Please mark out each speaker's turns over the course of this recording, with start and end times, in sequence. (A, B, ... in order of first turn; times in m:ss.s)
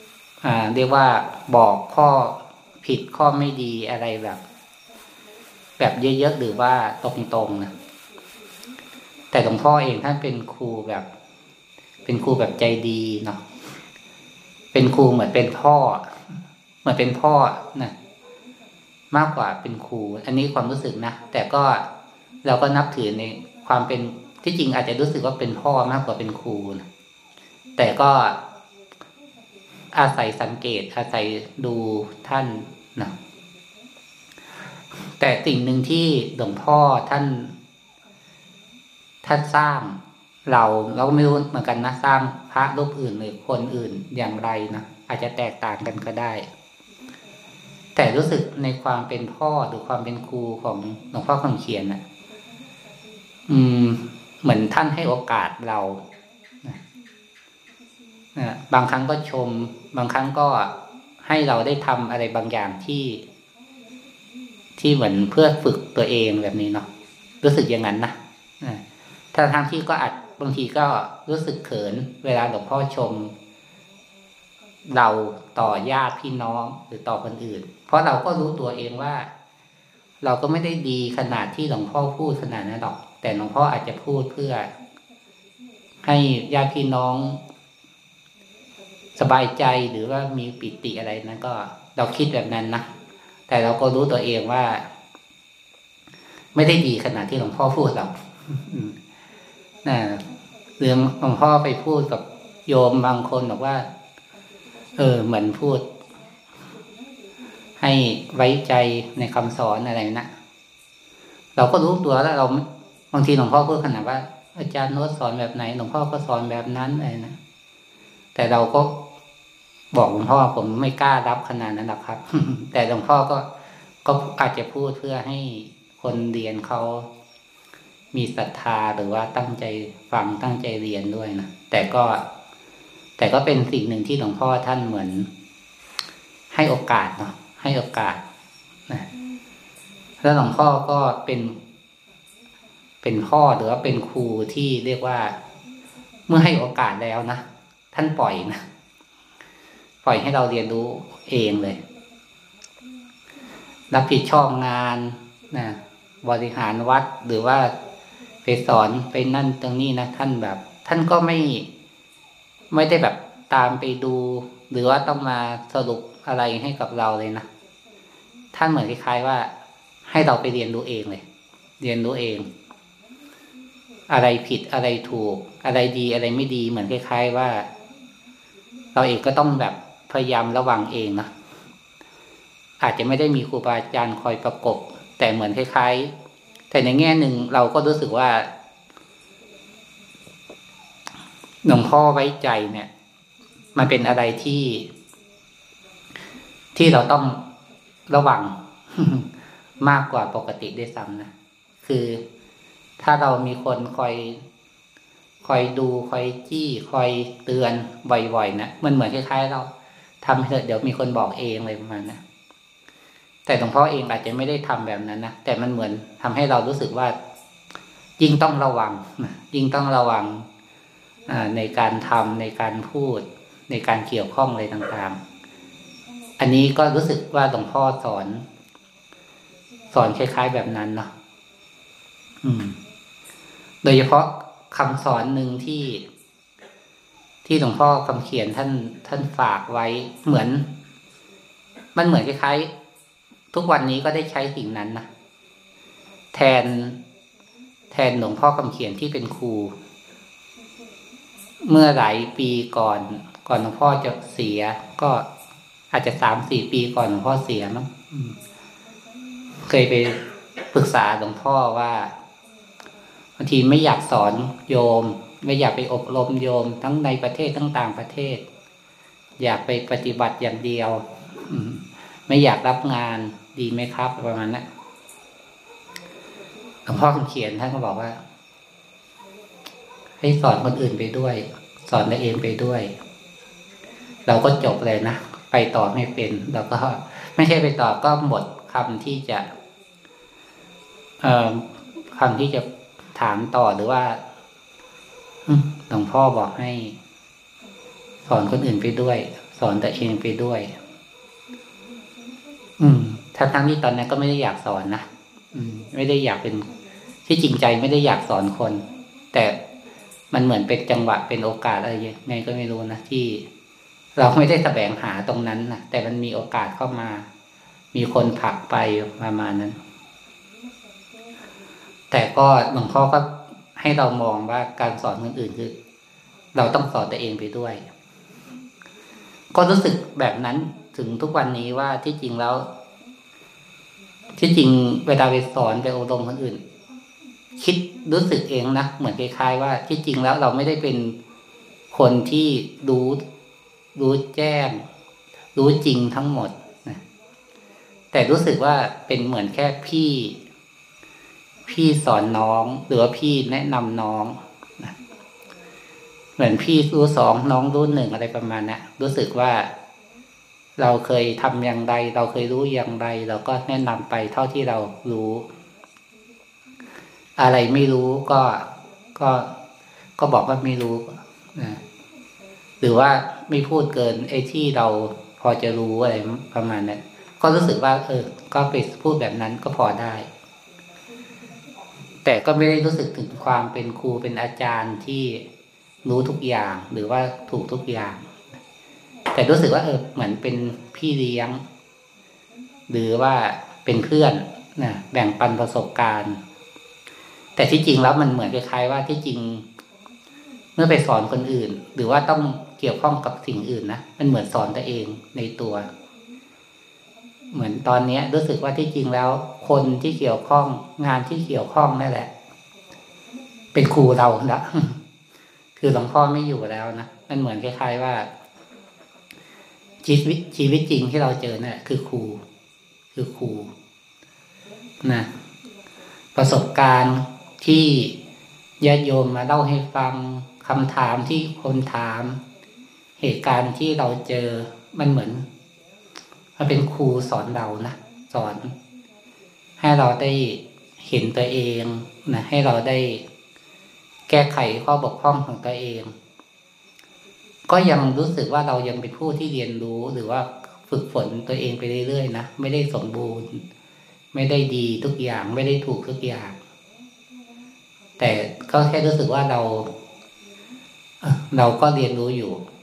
0:00.4-0:04.4 A
0:05.8-0:07.7 A
0:09.3-0:11.1 A
0:12.1-0:13.4 A
0:14.7-0:16.1 A
0:16.8-0:17.9 A
0:19.1-0:21.9 A
0:22.4-0:26.8 A
0:27.8-0:28.4 A
0:29.9-0:33.1 A
0:35.2-0:37.5 A
0:39.2-0:46.5 A
0:48.0-0:52.0 A
0:53.5-0:56.0 A
0:58.4-1:00.7 A
1:01.2-1:03.2 A
1:04.8-1:06.9 A
1:07.4-1:08.8 A
1:09.3-1:13.3 A
1:14.9-1:19.3 A
1:20.2-1:24.7 A
1:26.0-1:27.4 A
1:29.2-1:32.9 A
1:33.5-1:34.8 A
1:36.6-1:39.0 A
1:39.8-1:40.2 A
1:40.8-1:43.9 A
1:45.0-1:45.8 A
1:47.8-1:50.3 A
1:51.6-1:57.4 A
1:58.4-1:59.0 A
1:59.9-2:03.5 A
2:04.0-2:07.1 A
2:08.1-2:12.2 A
2:13.2-2:15.3 A
2:16.5-2:18.2 A
2:20.2-2:21.6 A
2:23.0-2:25.4 A
2:26.3-2:28.6 A
2:30.0-2:31.8 A
2:33.9-2:37.7 A
2:38.4-2:41.7 A
2:42.7-2:47.5 A
2:48.5-2:49.5 A
2:50.1-2:51.2 A
2:51.8-2:52.5 A
2:54.1-2:57.7 A
2:59.0-3:01.3 A
3:02.8-3:06.1 A
3:06.7-3:08.5 A
3:11.6-3:12.9 A
3:13.8-3:14.9 A
3:16.8-3:17.4 A
3:18.1-3:19.3 A
3:19.8-3:21.3 A
3:21.8-3:22.2 A
3:23.0-3:24.4 A
3:25.4-3:29.7 A
3:30.2-3:32.2 A
3:33.5-3:37.2 A
3:38.2-3:40.5 A
3:41.3-3:45.2 A
3:46.4-3:48.4 A
3:49.9-3:51.1 A
3:52.4-3:52.8 A
3:53.8-3:56.0 A
3:57.4-4:00.7 A
4:02.0-4:02.7 A
4:03.5-4:05.1 A
4:06.3-4:07.0 A
4:07.9-4:09.7 A
4:11.6-4:15.2 A
4:15.9-4:18.4 A
4:19.6-4:22.1 A
4:23.4-4:28.4 A
4:29.4-4:34.6 A
4:36.9-4:38.2 A
4:40.2-4:42.9 A
4:44.3-4:49.4 A
4:51.2-4:54.2 A
4:55.5-4:57.0 A
4:58.3-5:00.7 A
5:02.8-5:06.7 A
5:07.3-5:09.6 A
5:10.3-5:13.4 A
5:14.2-5:17.3 A
5:17.9-5:19.8 A
5:22.1-5:25.7 A
5:26.6-5:27.8 A
5:29.5-5:32.7 A
5:34.4-5:36.6 A
5:37.6-5:41.2 A
5:41.9-5:43.2 A
5:44.0-5:44.8 A
5:45.6-5:47.0 A
5:48.1-5:50.4 A
5:51.7-5:54.9 A
5:56.4-5:59.7 A
6:00.8-6:05.5 A
6:07.4-6:08.6 A
6:09.2-6:09.5 A
6:10.2-6:11.8 A
6:12.8-6:20.3 A
6:22.2-6:25.4 A
6:26.0-6:28.3 A
6:29.3-6:31.6 A
6:32.9-6:36.4 A
6:37.6-6:39.7 A
6:40.8-6:45.9 A
6:47.5-6:52.3 A
6:53.7-6:55.0 A
6:55.8-6:58.3 A
7:00.0-7:02.4 A
7:03.2-7:03.7 A
7:05.0-7:05.3 A
7:06.4-7:08.2 A
7:08.8-7:12.4 A
7:13.2-7:15.4 A
7:16.6-7:18.7 A
7:19.8-7:23.2 A
7:24.3-7:26.1 A
7:27.7-7:33.6 A
7:34.3-7:36.6 A
7:38.2-7:39.9 A
7:41.2-7:42.6 A